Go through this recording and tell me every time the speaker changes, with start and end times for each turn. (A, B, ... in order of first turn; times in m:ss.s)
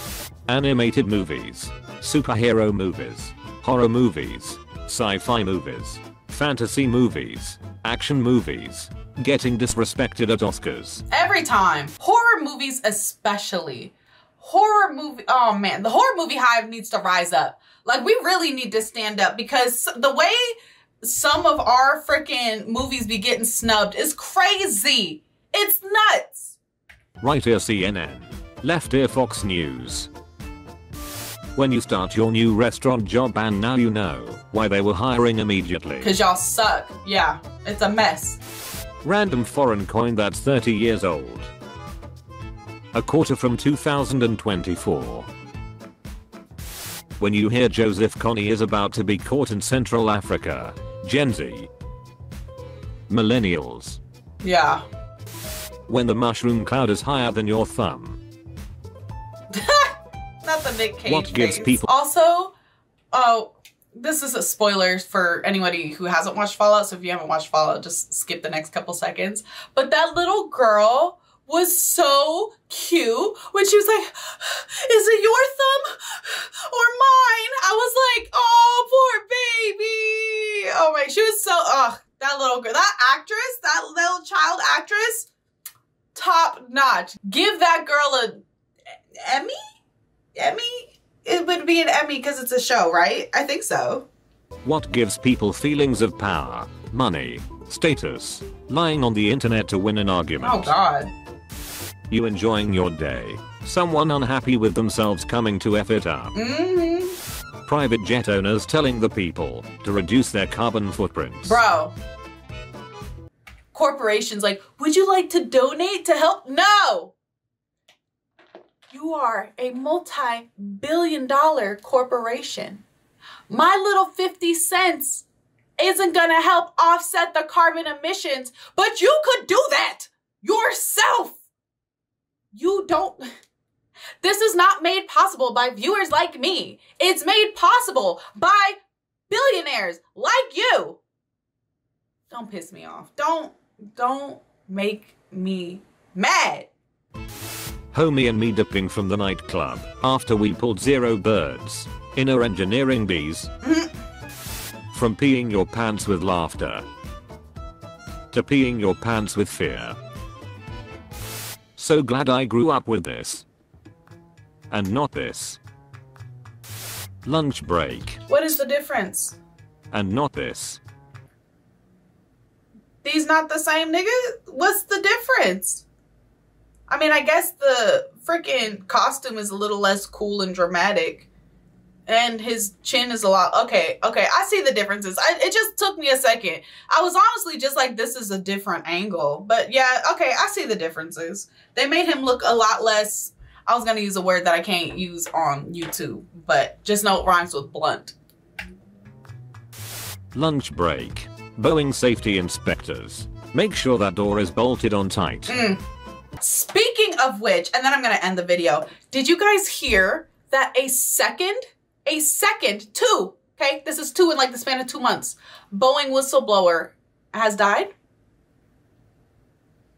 0:00.5-0:11.0 A
0:11.1-0:26.6 B
0:27.2-0:30.1 A
0:31.6-0:36.2 A
0:36.0-0:38.4 B
0:39.0-0:41.5 A
0:42.9-0:45.3 A
0:47.2-0:51.7 A
0:53.1-0:54.0 A
0:54.4-0:54.8 B
0:55.9-0:58.2 A
0:59.5-1:02.5 B
1:01.0-1:01.9 A
1:03.1-1:25.3 B
1:26.1-1:28.4 B
1:29.2-1:29.6 B
1:30.3-1:34.1 B
1:34.6-1:40.7 A
1:40.4-1:41.1 B
1:42.1-1:46.3 A
1:46.3-1:47.2 B
1:47.6-1:51.6 A
1:51.4-1:51.9 B
1:53.7-1:57.1 B
1:58.9-2:02.8 B
2:03.5-2:05.2 B
2:05.8-2:11.4 B
2:12.5-2:13.2 B
2:14.2-2:18.8 B
2:19.3-2:21.0 B
2:22.3-2:26.7 B
2:27.9-2:33.5 A
2:33.6-2:33.9 B
2:34.9-2:36.8 A
2:38.3-2:40.0 A
2:41.8-2:43.4 A
2:44.7-2:45.6 A
2:47.2-2:48.2 A
2:48.3-2:49.4 B
2:49.9-2:50.8 A
2:53.0-2:55.8 B
2:56.9-3:01.3 B
3:02.1-3:18.1 B
3:20.3-3:25.6 A
3:25.5-3:25.8 B
3:26.4-3:37.9 B